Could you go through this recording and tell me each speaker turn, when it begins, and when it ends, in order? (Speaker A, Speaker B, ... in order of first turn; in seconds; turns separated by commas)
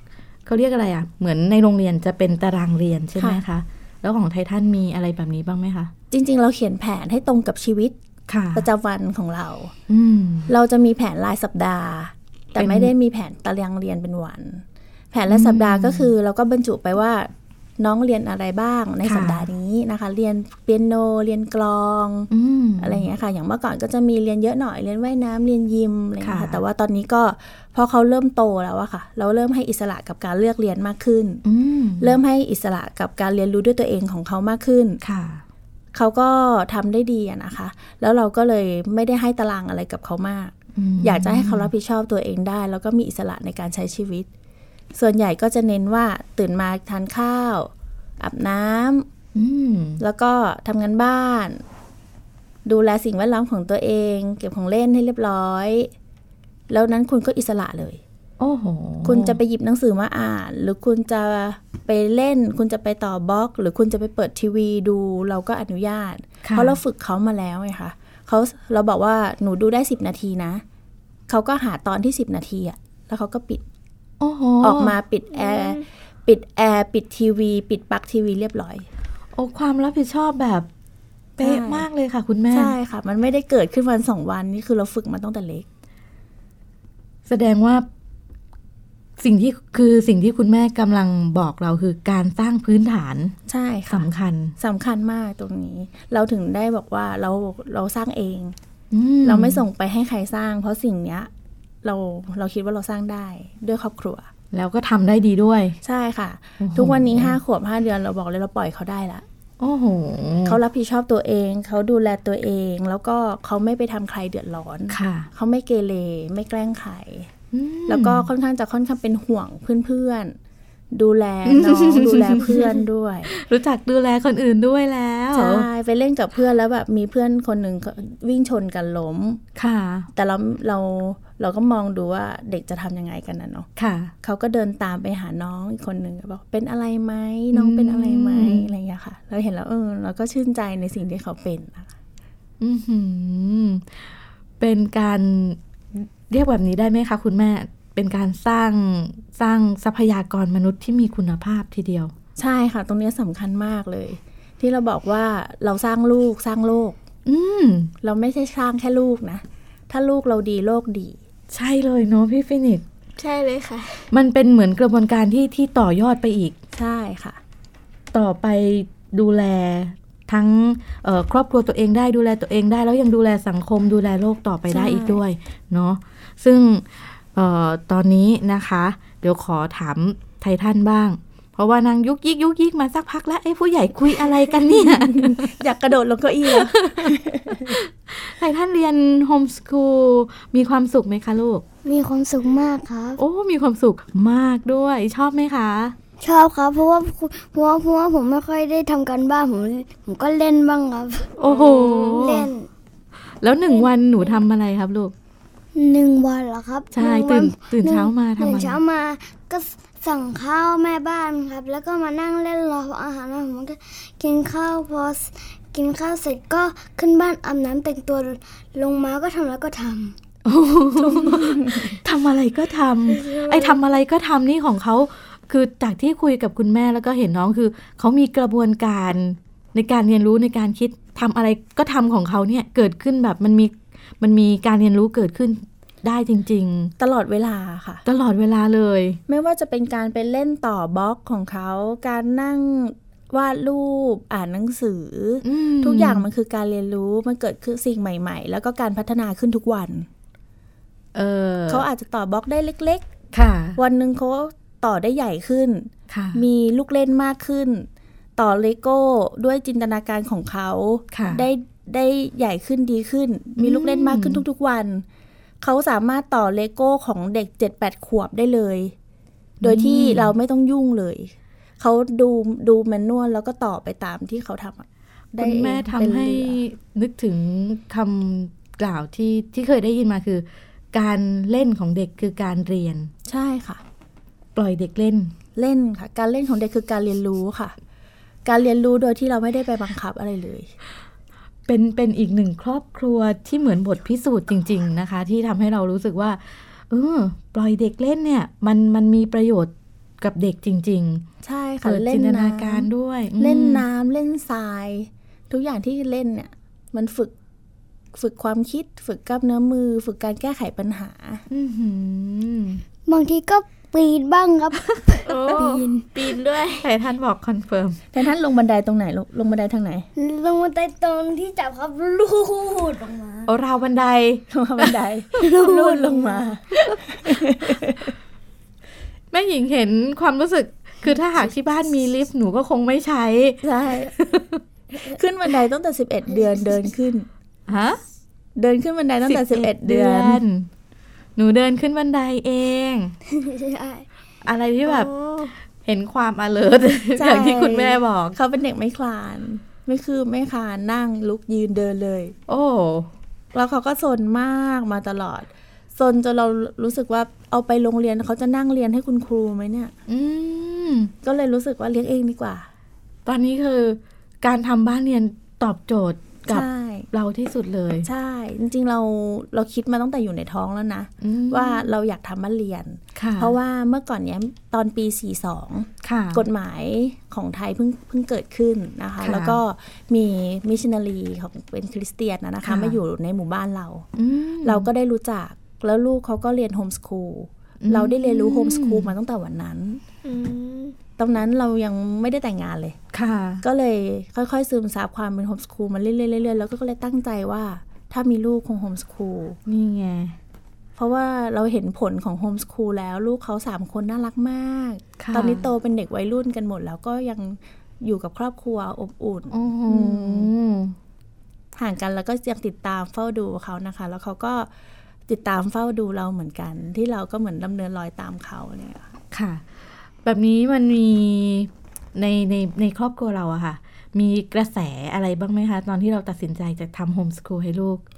Speaker A: 0.5-5.9, Speaker B: 6.1-8.0, Speaker A: 8.3-8.7, Speaker B: 8.5-9.7, Speaker A: 9.9-10.5, Speaker B: 10.5-31.4, Speaker A: 12.6-12.9, Speaker A: 15.3-16.1, Speaker A: 19.1-19.5, Speaker A: 22.3-23.1, Speaker A: 26.2-26.6, Speaker A: 31.4-32.2, Speaker B: 32.0-35.0, Speaker A: 35.0-35.4, Speaker B: 35.9-44.3, Speaker A: 40.8-41.7, Speaker B: 45.0-49.1, Speaker A: 49.4-50.0, Speaker B: 50.0-51.6, Speaker B: 52.7-55.9, Speaker B: 56.7-58.0, Speaker A: 58.4-59.4, Speaker B: 59.0-70.6, Speaker A: 66.4-66.8, Speaker B: 71.3-73.6, Speaker A: 74.2-75.0, Speaker B: 74.6-78.9, Speaker C: 75.3-75.8, Speaker A: 79.3-80.7, Speaker A: 81.4-82.7, Speaker B: 81.4-81.9, Speaker B: 82.5-85.7, Speaker A: 87.3-87.9, Speaker A: 89.2-93.3, Speaker B: 93.5-98.5, Speaker A: 93.9-94.6, Speaker A: 98.9-99.6, Speaker B: 99.2-101.3, Speaker B: 101.8-104.3, Speaker A: 104.5-105.8, Speaker B: 105.8-109.2, Speaker A: 106.6-107.4, Speaker A: 109.6-110.6, Speaker B: 110.5-117.3, Speaker A: 114.9-115.3, Speaker A: 117.5-118.3, Speaker B: 117.9-120.3, Speaker B: 120.9-123.3, Speaker A: 121.5-125.7, Speaker B: 125.3-129.4, Speaker A: 129.6-130.1, Speaker B: 130.1-133.7, Speaker A: 133.8-134.1, Speaker B: 134.2-141.9, Speaker A: 137.5-138.7, Speaker A: 142.6-152.1, Speaker B: 152.4-157.0, Speaker A: 157.3-157.9, Speaker B: 158.0-161.2, Speaker A: 161.5-162.8, Speaker C: 163.2-164.1, Speaker A: 164.1-166.6, Speaker B: 166.8-167.4, Speaker A: 168.1-185.6, Speaker B: 174.7-175.2, Speaker B: 184.9-187.7, Speaker A: 186.5-191.6, Speaker D: 191.8-193.2, Speaker A: 193.2-196.0, Speaker D: 196.2-201.3, Speaker A: 201.4-202.5, Speaker C: 201.4-202.2, Speaker D: 202.0-202.7, Speaker A: 203.4-205.1, Speaker D: 205.7-220.2, Speaker A: 206.9-208.8, Speaker A: 220.4-236.9, Speaker B: 221.0-221.9, Speaker D: 223.1-223.8, Speaker B: 237.0-238.0, Speaker A: 238.1-239.2, Speaker B: 239.3-250.1, Speaker A: 245.4-246.3, Speaker A: 251.1-251.9, Speaker B: 251.7-253.1, Speaker A: 253.3-253.8, Speaker B: 253.8-265.1, Speaker A: 256.1-256.4, Speaker A: 261.1-261.4, Speaker A: 263.6-264.4, Speaker B: 265.6-268.9, Speaker A: 269.6-270.3, Speaker B: 269.6-276.6, Speaker A: 275.4-283.1, Speaker B: 283.3-283.8, Speaker A: 284.6-285.3, Speaker B: 285.6-287.7, Speaker B: 288.4-290.7, Speaker A: 291.7-301.3, Speaker B: 301.4-307.3, Speaker A: 301.8-303.8, Speaker B: 308.1-311.4, Speaker A: 311.5-312.8, Speaker D: 313.1-316.1, Speaker C: 315.3-316.9, Speaker A: 316.8-318.0, Speaker B: 318.1-320.1, Speaker D: 320.2-323.5, Speaker A: 323.5-324.4, Speaker B: 324.5-328.1, Speaker D: 325.4-326.5, Speaker A: 329.3-334.6, Speaker B: 333.6-334.1, Speaker B: 335.1-337.3, Speaker A: 337.7-338.0, Speaker B: 338.6-340.4, Speaker A: 339.2-340.7, Speaker A: 341.4-343.1, Speaker D: 343.3-344.1, Speaker A: 344.4-345.1, Speaker C: 344.9-345.5, Speaker A: 345.8-348.4, Speaker B: 347.2-352.4, Speaker A: 352.5-353.1, Speaker B: 353.5-359.9, Speaker A: 360.1-361.1, Speaker B: 361.2-362.7, Speaker A: 363.3-368.1, Speaker B: 366.5-367.1, Speaker B: 368.0-384.1, Speaker A: 371.2-371.9, Speaker A: 373.1-373.6, Speaker A: 376.0-376.4, Speaker A: 379.2-379.6, Speaker A: 382.6-383.0, Speaker A: 384.2-384.9, Speaker B: 384.6-390.0, Speaker A: 387.8-389.1, Speaker C: 390.2-390.9, Speaker B: 391.2-393.0, Speaker A: 393.1-393.6, Speaker B: 393.6-399.6, Speaker A: 399.7-400.4, Speaker B: 401.0-410.5, Speaker A: 405.2-405.7, Speaker A: 409.5-410.9, Speaker B: 411.8-414.7, Speaker B: 415.3-419.1, Speaker A: 419.3-419.6, Speaker A: 420.2-428.0